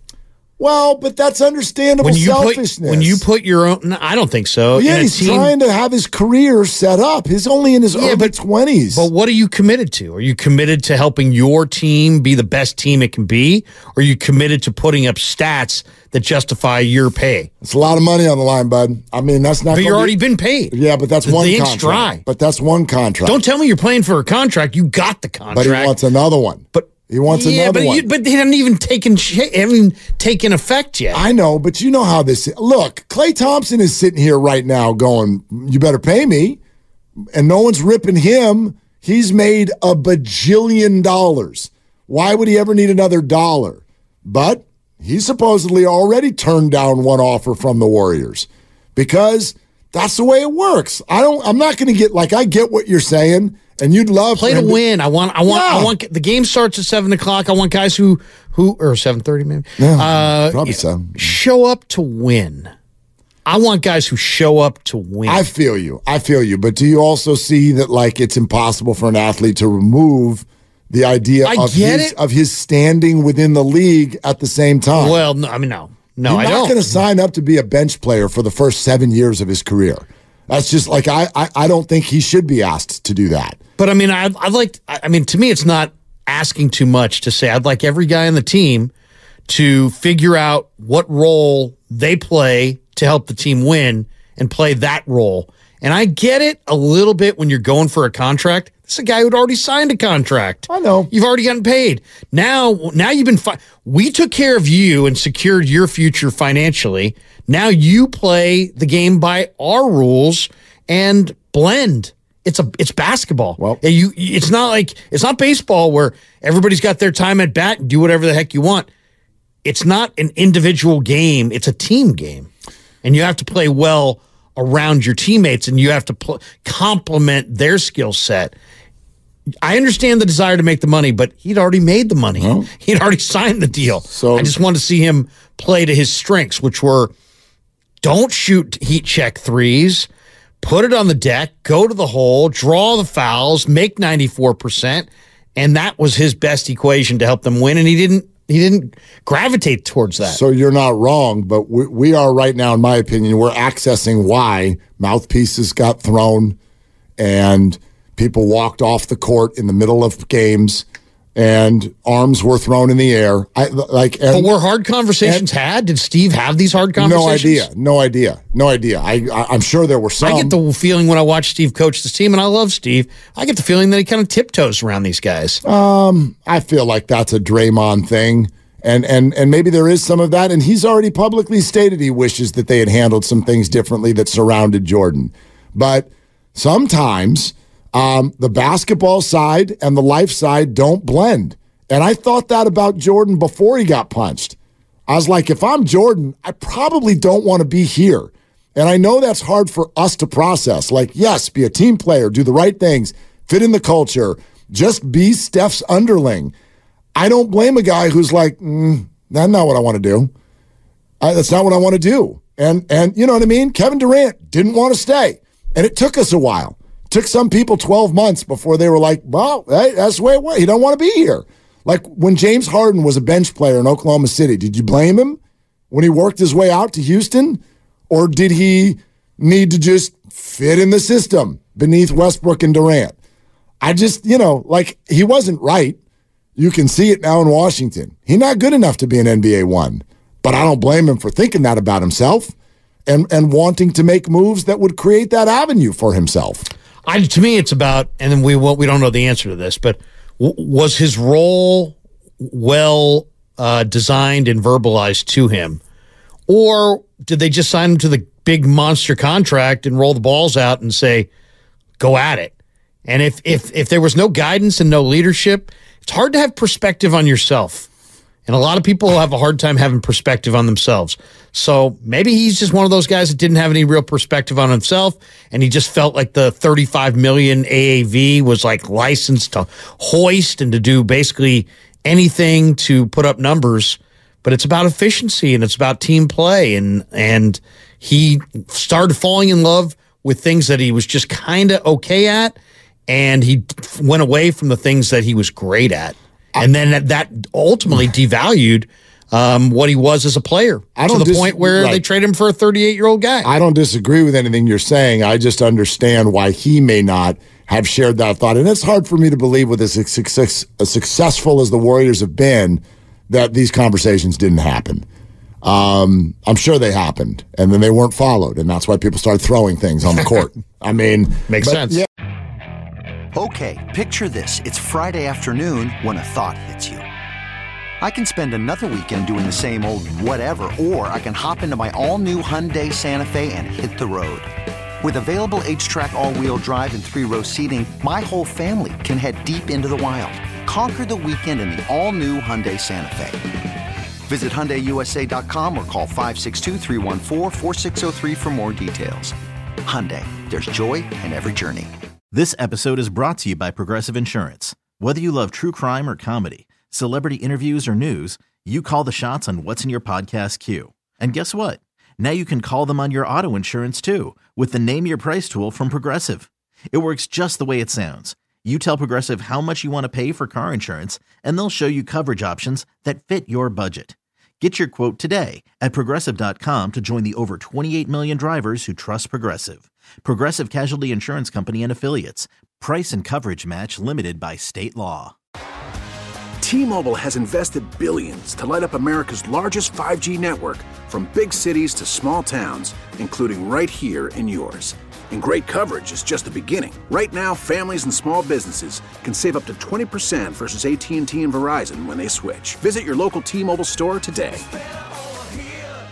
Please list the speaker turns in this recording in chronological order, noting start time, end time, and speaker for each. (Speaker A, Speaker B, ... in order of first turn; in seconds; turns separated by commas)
Speaker A: 0.6-3.2, Speaker B: 2.0-5.5, Speaker A: 4.7-9.1, Speaker B: 7.9-8.3, Speaker B: 8.9-17.5, Speaker A: 17.6-20.2, Speaker B: 19.7-22.2, Speaker A: 20.7-23.4, Speaker B: 23.2-25.9, Speaker A: 25.5-28.0, Speaker B: 26.7-31.2, Speaker A: 31.1-36.6, Speaker A: 37.3-54.8, Speaker B: 54.3-62.7, Speaker A: 55.5-55.9, Speaker A: 59.8-61.2, Speaker B: 63.5-65.5, Speaker A: 65.2-75.2, Speaker B: 71.4-72.1, Speaker B: 74.9-76.8, Speaker A: 76.2-83.6, Speaker B: 83.8-88.9, Speaker B: 89.5-118.9, Speaker A: 100.7-101.1, Speaker B: 119.6-122.5, Speaker B: 123.0-128.5, Speaker B: 129.6-137.1, Speaker A: 132.3-132.7, Speaker A: 134.1-134.5, Speaker B: 138.0-140.1, Speaker B: 140.6-150.4, Speaker A: 150.2-156.6, Speaker A: 157.2-160.8, Speaker A: 161.3-164.5, Speaker B: 164.3-167.7, Speaker A: 167.0-170.6, Speaker B: 170.2-175.6, Speaker A: 175.6-194.6, Speaker A: 195.1-206.5, Speaker A: 207.1-210.3, Speaker A: 211.2-225.4, Speaker A: 225.9-233.2, Speaker A: 233.8-236.0, Speaker A: 236.6-242.5, Speaker A: 243.1-246.7, Speaker B: 247.0-255.8, Speaker B: 256.5-261.3, Speaker B: 262.0-262.5, Speaker B: 263.1-267.9, Speaker B: 268.5-292.6, Speaker B: 293.1-303.5, Speaker A: 300.9-302.0, Speaker A: 303.4-315.1, Speaker A: 315.6-322.0, Speaker B: 321.5-322.0, Speaker C: 323.4-327.0, Speaker C: 328.0-334.5, Speaker C: 335.0-343.4, Speaker C: 344.3-349.3, Speaker C: 349.9-351.9, Speaker D: 352.3-385.3, Speaker E: 386.6-404.6